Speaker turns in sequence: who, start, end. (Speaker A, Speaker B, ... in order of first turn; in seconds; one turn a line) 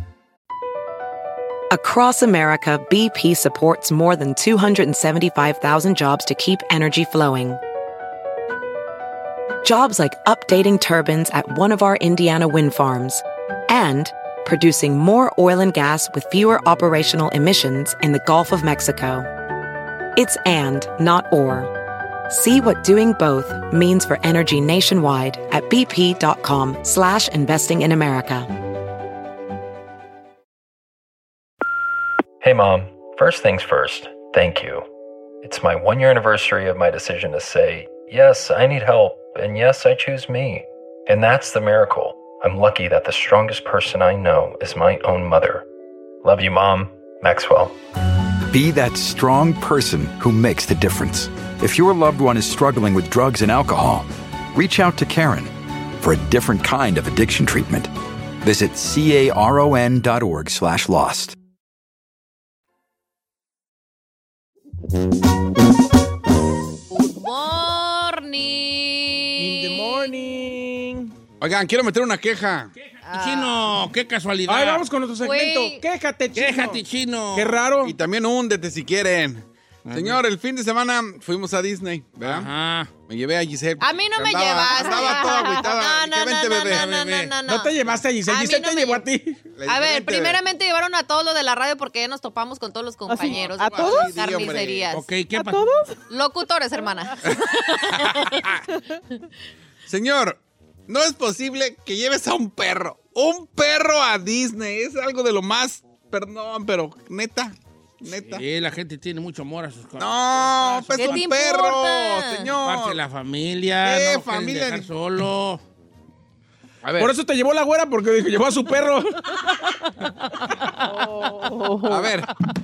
Speaker A: 1.7-7.6
Speaker A: 9.6-19.3
Speaker A: 20.1-21.7
Speaker A: 22.3-28.5
Speaker B: 32.4-34.9
Speaker B: 35.4-45.6
Speaker B: 46.2-47.8
Speaker C: 48.5-61.4
Speaker D: 66.9-70.1
Speaker E: 69.4-71.1
Speaker F: 71.4-72.7
Speaker G: 72.8-74.8
Speaker D: 73.0-73.5
Speaker E: 74.5-76.8
Speaker D: 75.2-75.8
Speaker G: 76.3-77.6
Speaker E: 77.3-78.0
Speaker F: 77.8-82.5
Speaker G: 79.8-80.2
Speaker G: 82.2-82.9
Speaker F: 83.1-86.9
Speaker D: 83.8-87.7
Speaker G: 86.6-87.3
Speaker E: 87.5-89.4
Speaker D: 88.3-89.0
Speaker F: 89.6-90.4
Speaker D: 89.7-95.1
Speaker H: 93.1-94.5
Speaker F: 93.2-94.9
Speaker G: 94.9-95.7
Speaker H: 95.2-96.0
Speaker D: 96.1-98.2
Speaker F: 97.2-98.6
Speaker F: 99.9-108.4
Speaker G: 108.0-111.2
Speaker F: 110.0-113.0
Speaker D: 110.9-112.5
Speaker G: 112.6-115.6
Speaker F: 113.8-114.9
Speaker F: 116.8-117.1
Speaker E: 117.0-119.5
Speaker H: 120.9-122.2
Speaker F: 121.8-122.3